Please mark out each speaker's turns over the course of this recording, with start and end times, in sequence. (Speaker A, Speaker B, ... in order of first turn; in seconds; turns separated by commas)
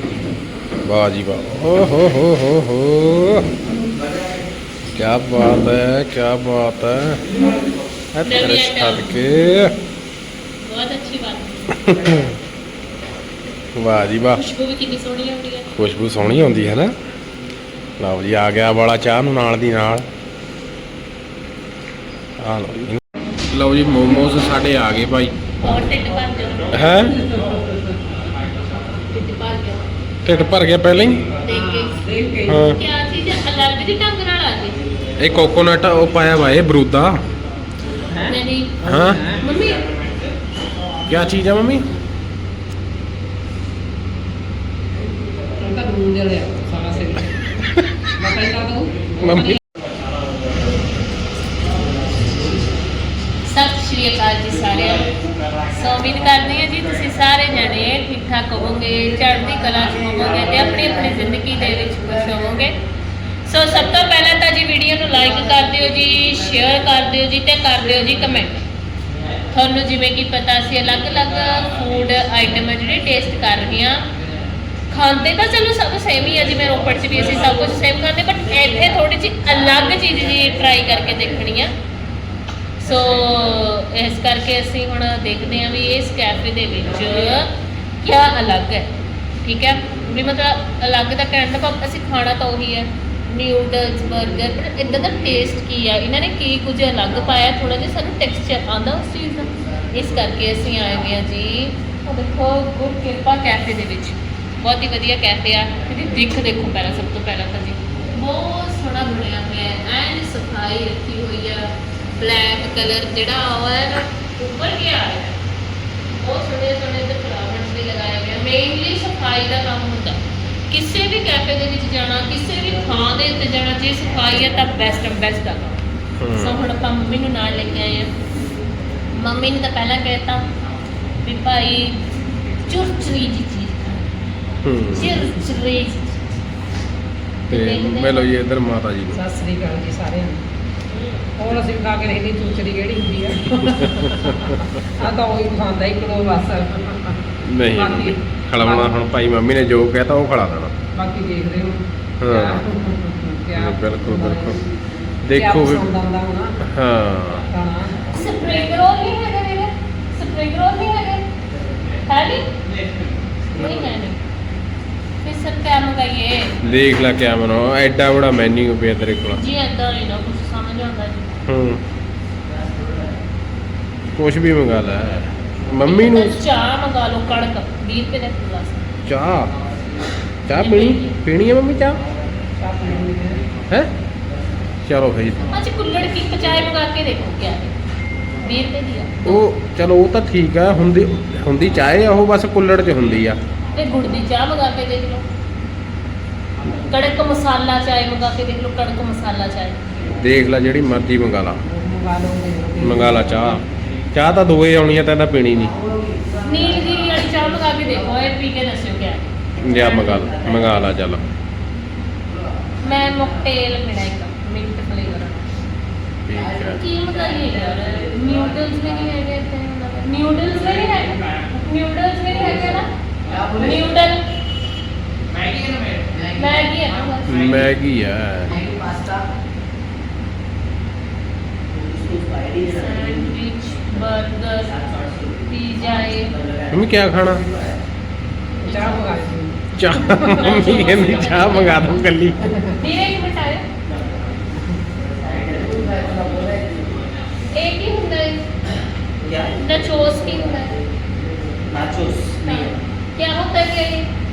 Speaker A: 0.8-3.5, Speaker A: 5.0-7.2, Speaker A: 8.1-9.7, Speaker B: 8.2-9.2, Speaker B: 10.6-11.8, Speaker A: 11.8-12.3, Speaker A: 13.8-14.4, Speaker B: 14.3-15.7, Speaker A: 15.7-16.9, Speaker A: 18.0-20.0, Speaker A: 22.4-23.0, Speaker A: 23.5-25.3, Speaker B: 25.6-27.0, Speaker A: 26.7-27.2, Speaker B: 29.1-29.9, Speaker A: 30.2-31.2, Speaker B: 31.4-32.0, Speaker C: 31.5-32.7, Speaker A: 32.5-32.8, Speaker B: 32.6-34.8, Speaker A: 35.2-37.2, Speaker C: 38.1-39.4, Speaker B: 38.3-38.8, Speaker A: 38.8-39.2, Speaker B: 39.4-39.8, Speaker A: 41.1-41.9, Speaker C: 45.5-47.4, Speaker C: 48.2-49.6, Speaker A: 49.2-49.6, Speaker B: 53.5-55.1, Speaker B: 55.7-62.8, Speaker B: 63.5-68.6, Speaker B: 69.5-74.1, Speaker B: 74.9-81.7, Speaker B: 82.8-87.5, Speaker B: 88.0-88.9, Speaker B: 89.4-115.4, Speaker B: 116.2-120.2, Speaker B: 120.7-125.8, Speaker A: 126.2-126.6, Speaker B: 126.3-128.1, Speaker B: 129.2-130.4, Speaker B: 131.2-132.0, Speaker B: 132.7-134.0, Speaker A: 134.6-135.2, Speaker B: 134.9-136.0, Speaker B: 137.5-138.3, Speaker A: 137.5-139.2, Speaker C: 139.2-140.4, Speaker B: 140.9-141.3, Speaker C: 141.4-149.0, Speaker A: 143.7-144.9, Speaker A: 147.4-150.7, Speaker C: 150.9-154.6, Speaker A: 152.2-152.7, Speaker A: 153.6-154.6, Speaker A: 155.2-155.9, Speaker C: 155.3-156.6, Speaker A: 156.6-157.5, Speaker C: 157.5-158.1, Speaker B: 158.1-161.2, Speaker B: 162.1-162.4, Speaker B: 163.6-164.2, Speaker B: 165.2-166.6, Speaker A: 166.6-169.4, Speaker B: 169.3-171.4, Speaker A: 171.5-171.8, Speaker A: 174.2-176.4, Speaker B: 175.8-178.8, Speaker A: 179.1-179.5, Speaker A: 180.5-182.0, Speaker B: 180.5-181.2, Speaker C: 182.6-183.4, Speaker A: 184.8-185.6, Speaker B: 185.5-187.7, Speaker B: 188.4-189.4, Speaker A: 189.2-193.4, Speaker B: 193.7-195.2, Speaker B: 196.9-200.1, Speaker A: 200.2-201.6, Speaker C: 201.7-203.6, Speaker A: 202.8-203.6, Speaker A: 204.1-205.7, Speaker B: 206.4-210.4, Speaker A: 209.6-211.2, Speaker B: 212.8-215.4, Speaker A: 216.3-216.8, Speaker B: 216.7-222.9, Speaker B: 223.6-224.2, Speaker B: 226.3-227.7, Speaker A: 227.3-228.6, Speaker D: 231.7-232.8, Speaker B: 232.6-234.7, Speaker D: 234.8-235.3, Speaker B: 235.5-236.3, Speaker A: 236.7-237.4, Speaker C: 238.6-241.4, Speaker B: 238.7-239.1, Speaker A: 239.8-242.4, Speaker B: 240.3-242.0, Speaker C: 242.5-242.7, Speaker B: 242.8-243.7, Speaker D: 245.0-246.8, Speaker B: 247.5-248.4, Speaker B: 249.5-250.8, Speaker D: 251.7-252.8, Speaker B: 252.4-254.1